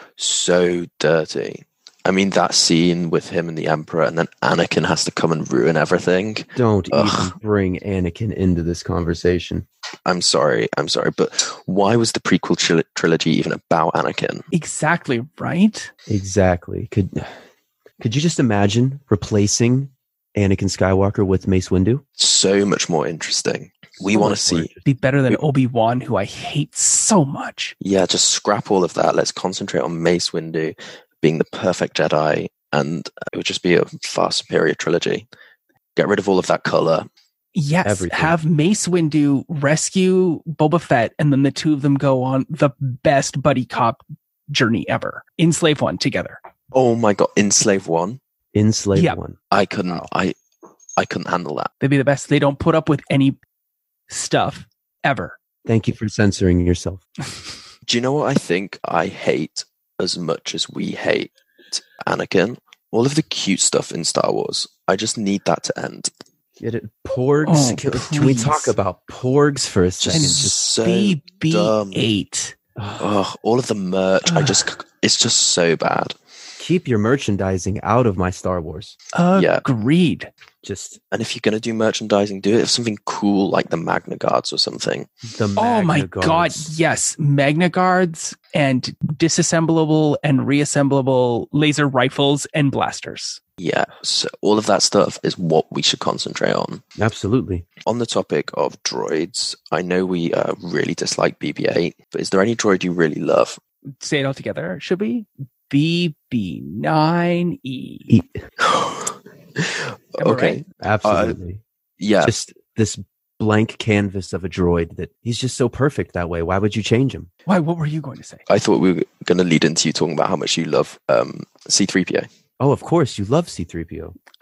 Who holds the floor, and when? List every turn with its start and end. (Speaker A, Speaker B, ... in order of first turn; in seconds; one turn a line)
Speaker A: 0.2-7.3
Speaker B: 6.5-9.7
Speaker A: 10.1-14.4
Speaker C: 14.5-15.9
Speaker B: 16.1-17.3
Speaker B: 18.0-22.0
Speaker A: 22.2-24.7
Speaker B: 24.0-24.9
Speaker C: 24.8-27.7
Speaker A: 27.8-35.3
Speaker A: 35.9-37.1
Speaker C: 37.5-46.4
Speaker B: 37.8-38.4
Speaker A: 46.7-48.2
Speaker B: 48.5-50.1
Speaker A: 49.5-50.4
Speaker A: 51.0-51.7
Speaker C: 51.8-53.4
Speaker C: 54.1-55.4
Speaker B: 55.6-57.0
Speaker A: 57.9-66.1
Speaker B: 66.6-70.5
Speaker C: 67.4-68.8
Speaker A: 70.0-72.1
Speaker C: 70.1-72.5
Speaker B: 72.8-73.1
Speaker A: 73.0-76.2
Speaker C: 74.2-74.6
Speaker B: 76.6-79.0
Speaker C: 79.1-80.3
Speaker A: 79.3-79.6
Speaker B: 80.6-81.0
Speaker A: 81.1-85.1
Speaker B: 85.3-86.7
Speaker C: 85.5-93.4
Speaker A: 93.6-96.8
Speaker B: 97.0-97.6
Speaker A: 97.8-103.6
Speaker C: 104.0-108.1
Speaker B: 108.1-108.4
Speaker A: 108.6-111.3
Speaker C: 110.2-110.6
Speaker B: 110.8-111.6
Speaker A: 112.0-112.3
Speaker B: 112.2-117.3
Speaker C: 117.5-118.4
Speaker A: 118.5-122.3
Speaker B: 122.6-124.1